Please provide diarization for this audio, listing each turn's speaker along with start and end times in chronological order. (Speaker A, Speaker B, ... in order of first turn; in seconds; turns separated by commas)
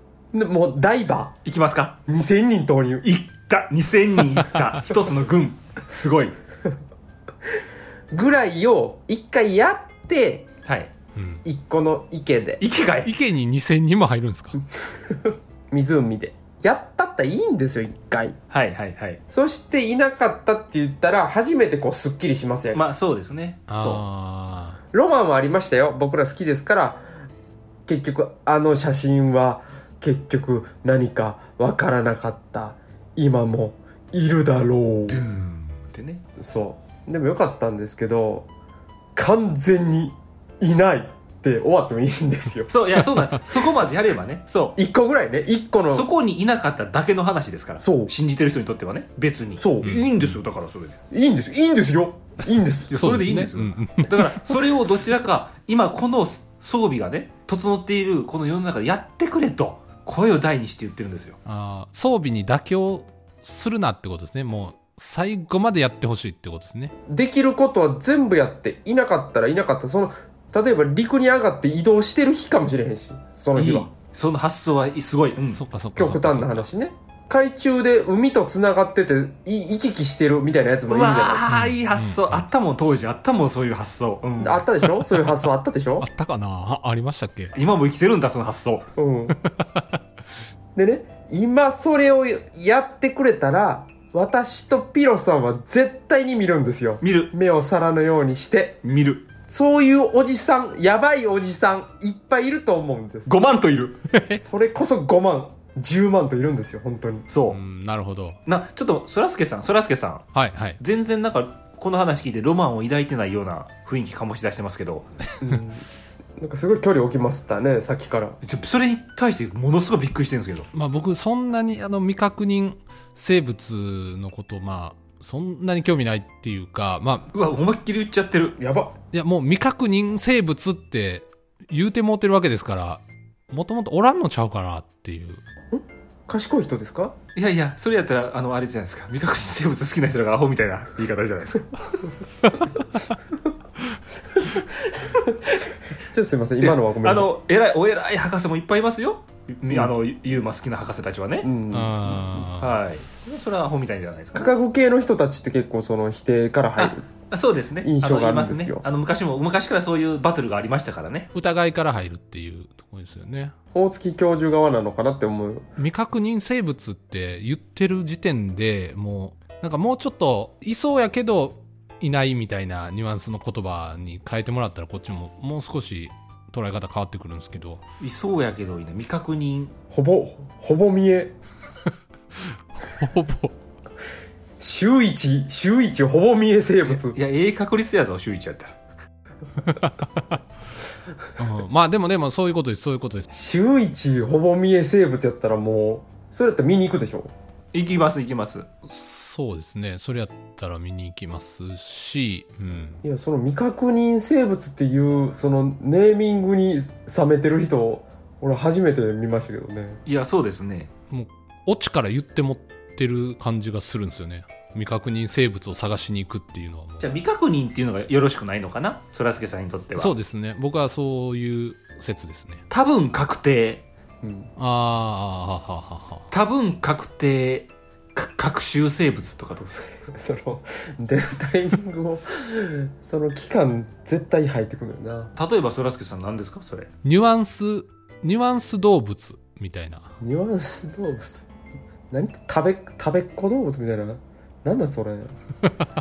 Speaker A: 0.3-1.4, Speaker B: 1.4-2.0, Speaker A: 2.1-3.0, Speaker B: 3.0-6.4, Speaker A: 8.1-10.5, Speaker B: 10.7-10.9, Speaker C: 11.2-11.4, Speaker A: 11.4-12.6, Speaker B: 12.6-13.1, Speaker C: 13.1-14.6, Speaker A: 14.8-18.4, Speaker B: 18.5-19.2, Speaker A: 19.3-22.8, Speaker B: 22.7-24.0, Speaker C: 23.7-24.8, Speaker A: 24.9-27.0, Speaker A: 27.9-35.2, Speaker B: 35.1-36.2, Speaker A: 36.4-38.5, Speaker A: 39.1-42.7, Speaker B: 42.7-44.8, Speaker A: 44.8-46.1, Speaker B: 45.9-51.0, Speaker A: 47.8-48.1, Speaker A: 49.6-50.0, Speaker C: 49.8-50.4, Speaker A: 51.1-53.2, Speaker C: 52.9-54.4, Speaker B: 52.9-61.4, Speaker C: 61.5-66.9, Speaker A: 67.1-73.9, Speaker B: 73.6-75.6, Speaker C: 75.6-76.7, Speaker A: 76.0-81.5, Speaker B: 80.9-84.7, Speaker C: 81.5-82.5, Speaker A: 84.4-86.1, Speaker C: 86.0-87.5, Speaker B: 87.5-88.9, Speaker A: 89.0-89.4, Speaker C: 89.4-89.8, Speaker A: 90.8-98.8, Speaker B: 97.0-97.3, Speaker B: 98.8-99.3, Speaker A: 99.5-103.3, Speaker B: 103.3-104.0, Speaker C: 104.1-104.4, Speaker A: 104.3-107.3, Speaker B: 107.3-107.6, Speaker C: 107.5-108.4, Speaker B: 108.5-110.3, Speaker C: 110.3-110.8, Speaker B: 110.8-115.1, Speaker A: 115.4-118.4, Speaker B: 118.4-120.7, Speaker C: 120.7-127.3, Speaker B: 127.3-128.6, Speaker A: 128.6-129.0, Speaker C: 129.1-135.4, Speaker A: 135.7-137.2, Speaker B: 137.4-141.9, Speaker A: 144.6-147.3, Speaker B: 146.6-151.5, Speaker A: 151.4-152.5, Speaker C: 151.7-152.8, Speaker B: 152.6-154.5, Speaker A: 154.3-157.1, Speaker B: 156.8-161.3, Speaker A: 157.8-158.8, Speaker C: 161.3-163.5, Speaker A: 163.7-165.7, Speaker C: 165.8-177.8, Speaker B: 178.0-179.7, Speaker A: 179.9-181.3, Speaker C: 182.8-183.5, Speaker A: 184.6-187.2, Speaker B: 186.8-188.8, Speaker C: 189.6-190.4, Speaker C: 191.4-193.3, Speaker A: 193.3-197.3, Speaker B: 197.7-198.7, Speaker C: 198.9-203.0, Speaker A: 203.0-210.0, Speaker B: 210.1-210.9, Speaker C: 211.1-217.2, Speaker B: 217.0-220.2, Speaker C: 220.0-222.6, Speaker B: 222.7-223.9, Speaker A: 224.2-224.5, Speaker C: 224.6-226.3, Speaker B: 226.3-230.0, Speaker A: 230.1-235.3, Speaker B: 235.4-236.9, Speaker C: 237.0-240.1, Speaker A: 240.2-241.5, Speaker A: 242.1-245.4